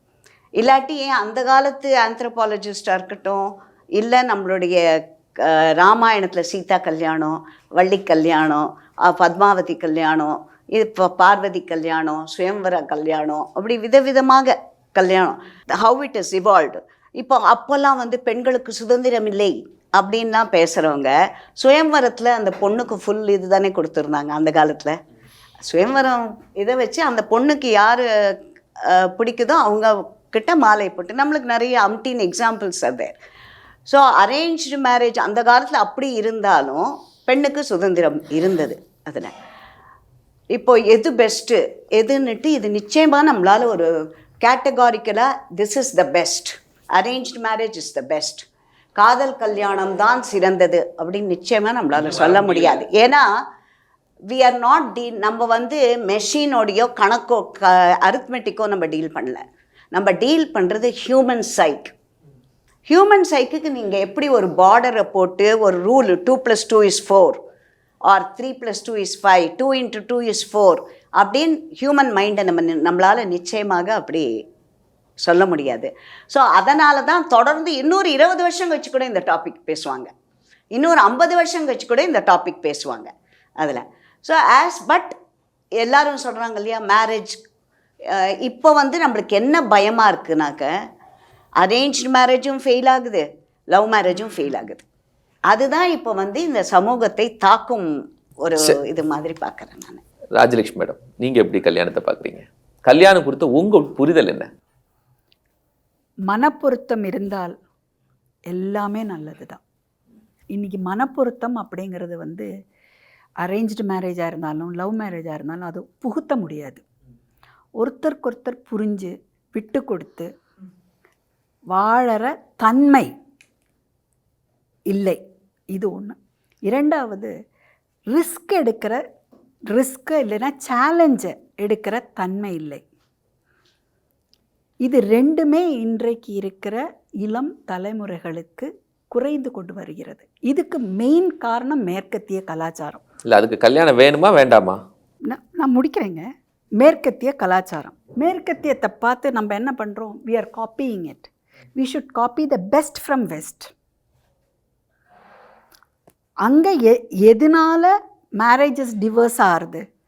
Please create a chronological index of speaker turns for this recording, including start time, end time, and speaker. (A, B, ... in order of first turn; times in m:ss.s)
0:00.6-0:03.4 A
0:04.0-0:04.8 A
0:05.5-0:25.0 A
0:25.7-0:28.0 A
0:28.9-0:33.1 A
0:33.9-0:39.3 A
0:40.5-0:43.9 A
0:44.4-0:48.5 A
0:49.0-0:53.2 A
0:52.2-0:52.8 B
0:54.3-0:59.4 A
0:59.9-1:01.9 A
1:02.9-1:07.4 A
1:08.1-1:14.3 A
1:15.2-1:20.1 A
1:20.8-1:25.1 A
1:25.8-1:27.4 A
1:28.4-1:30.7 A
1:31.6-1:34.8 A
1:35.5-1:37.9 A
1:38.4-1:40.0 A
1:40.4-1:44.5 B
1:46.3-1:47.6 C
1:48.5-1:49.6 C
1:50.5-1:52.5 C
1:53.4-1:56.8 C
1:57.8-2:00.3 C
2:01.7-2:03.1 C
2:04.9-2:05.2 C
2:05.7-2:06.2 C
2:06.7-2:07.3 C
2:08.1-2:09.0 C
2:09.7-2:12.8 C
2:14.8-2:23.0 C
2:23.3-2:24.8 B
2:25.3-2:26.2 C
2:26.8-2:33.7 C
2:36.5-2:39.8 C